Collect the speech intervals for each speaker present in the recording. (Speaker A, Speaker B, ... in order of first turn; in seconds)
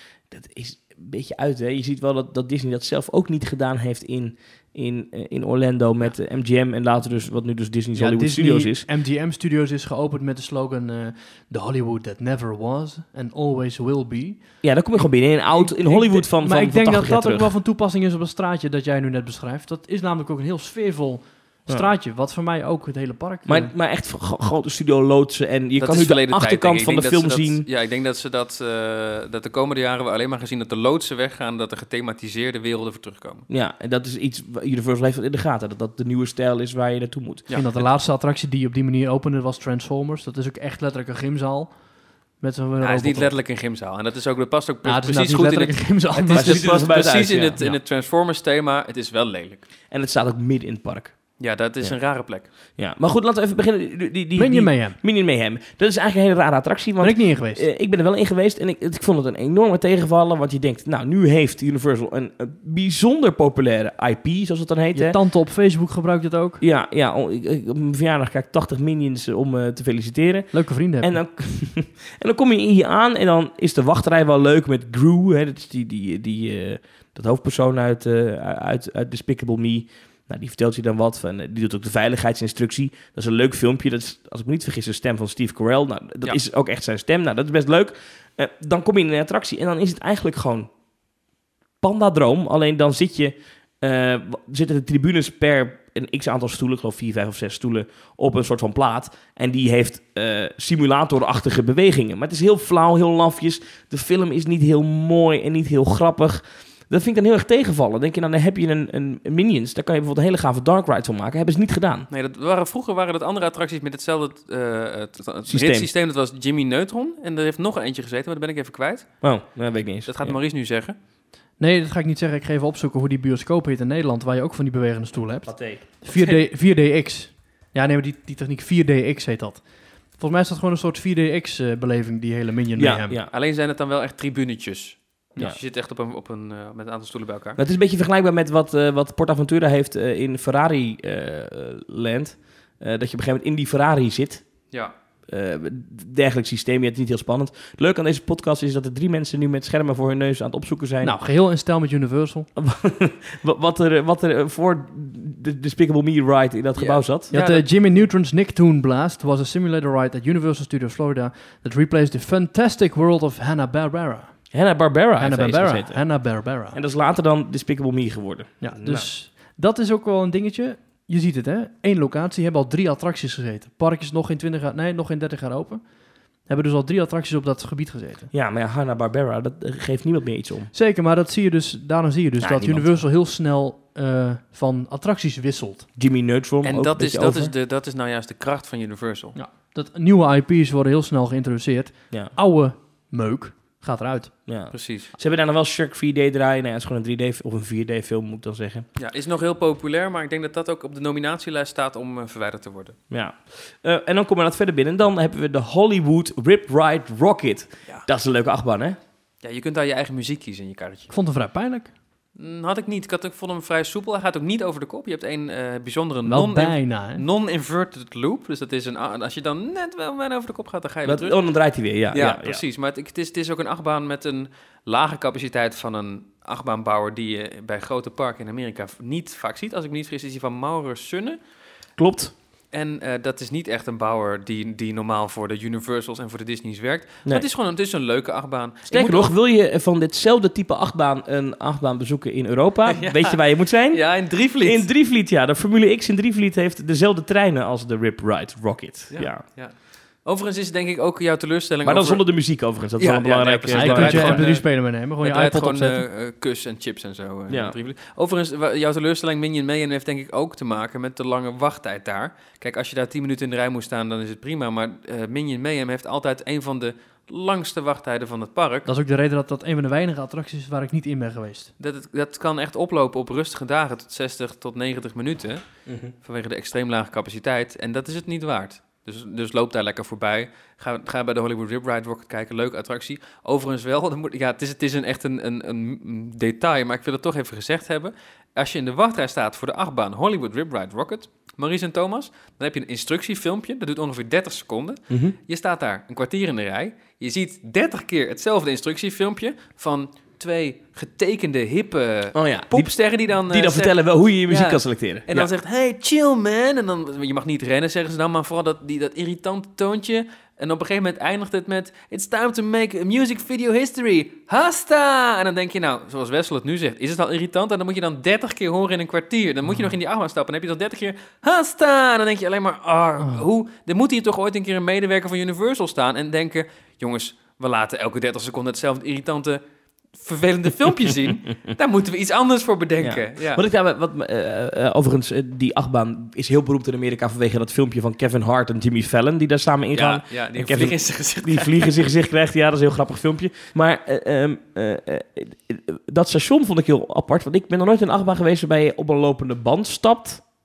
Speaker A: 0.3-8.9, 14.6-17.5, 23.5-27.7, 33.5-37.5, 46.3-47.6, 49.9-51.2, 52.8-65.2, 66.6-90.7, 91.8-112.1, 115.5-115.9, 119.2-120.4, 125.5-126.4, 132.8-133.3, 137.6-144.4, 145.3-151.1, 152.6-157.3, 164.5-166.1, 166.7-169.1, 178.3-180.7, 182.4-182.9, 186.0-187.5, 194.5-198.9, 203.1-209.0, 221.1-222.6, 232.0-232.3, 238.9-249.4, 251.8-254.5, 257.5-257.8, 275.9-276.1, 295.1-295.4, 302.4-305.5, 333.0-350.4
Speaker B: 8.0-14.4, 15.5-23.7, 37.5-41.7, 42.4-43.3, 44.9-46.9, 54.4-55.0, 57.0-57.6, 64.9-66.6, 70.5-71.2, 121.6-129.7, 130.2-133.2, 151.0-152.5, 157.3-164.3, 165.2-166.8, 168.6-175.8, 176.5-178.3, 180.7-185.9, 189.3-194.3, 211.1-211.9, 216.3-217.2, 253.7-256.0, 268.9-271.7
Speaker C: 25.8-33.5, 42.8-49.6, 51.4-52.5, 112.1-119.1, 120.1-121.0, 133.3-137.6, 156.8-157.7, 186.6-189.4, 194.7-195.1, 199.0-203.0, 209.4-211.1, 212.4-221.4, 222.1-231.4, 232.7-239.3, 242.9-244.9, 249.1-252.4, 253.0-268.9, 271.8-275.6, 276.2-304.0, 304.5-329.6, 330.1-333.6, 339.9-342.0